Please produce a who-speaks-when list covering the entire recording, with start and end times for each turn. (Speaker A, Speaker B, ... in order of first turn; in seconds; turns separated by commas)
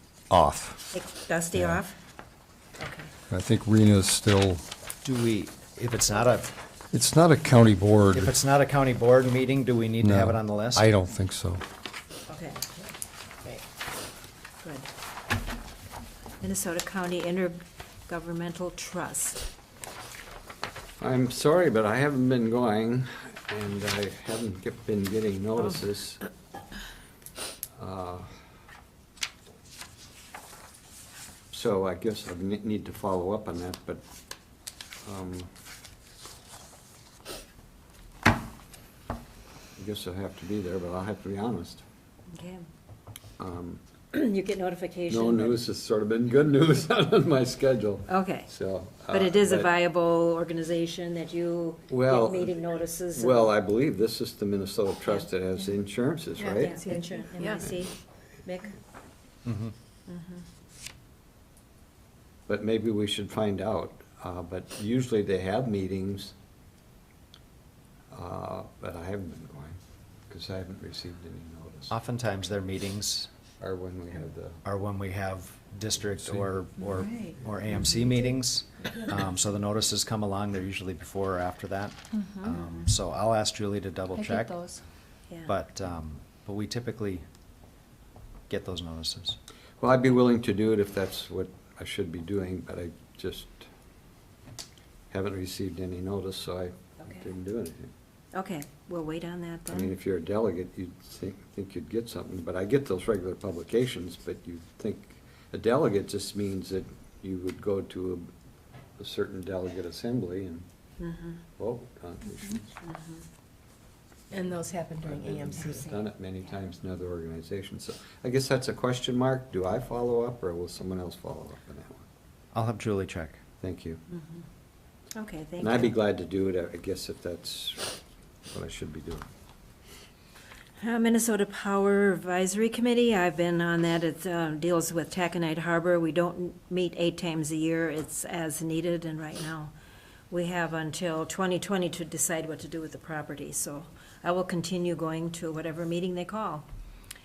Speaker A: 0.3-0.9, Speaker B: 0.9-2.0, Speaker A: 1.5-1.8, Speaker B: 2.8-3.1, Speaker A: 3.3-4.7, Speaker C: 5.0-6.5, Speaker A: 6.9-8.4, Speaker C: 8.1-10.9, Speaker A: 10.0-11.6, Speaker B: 12.3-12.7, Speaker B: 14.6-14.9, Speaker B: 16.4-19.5, Speaker D: 21.0-26.2, Speaker D: 27.8-28.4, Speaker D: 31.5-34.0, Speaker D: 35.0-35.5, Speaker D: 39.8-41.8, Speaker B: 42.3-42.6, Speaker D: 43.4-43.8, Speaker B: 44.1-45.6, Speaker D: 45.1-49.7, Speaker B: 48.1-48.5, Speaker B: 49.1-53.5, Speaker D: 51.9-56.8, Speaker E: 56.4-57.8, Speaker B: 56.6-58.8, Speaker C: 59.5-59.7, Speaker B: 60.1-60.5, Speaker D: 62.5-66.3, Speaker D: 68.1-72.0, Speaker C: 71.9-73.3, Speaker D: 73.6-74.6, Speaker C: 74.7-84.6, Speaker C: 85.5-87.2, Speaker C: 88.5-89.4, Speaker D: 89.8-93.7, Speaker D: 95.1-97.9, Speaker B: 97.0-97.3, Speaker B: 98.3-100.0, Speaker D: 99.7-108.3, Speaker D: 109.0-110.7, Speaker B: 111.0-111.4, Speaker D: 111.6-112.8, Speaker B: 112.8-113.2, Speaker E: 114.3-116.0, Speaker D: 115.0-122.0, Speaker C: 122.5-123.4, Speaker D: 123.6-124.0, Speaker B: 124.1-124.4, Speaker B: 125.2-126.0, Speaker D: 125.6-128.0, Speaker D: 128.5-129.3, Speaker B: 130.8-139.8, Speaker B: 140.3-146.7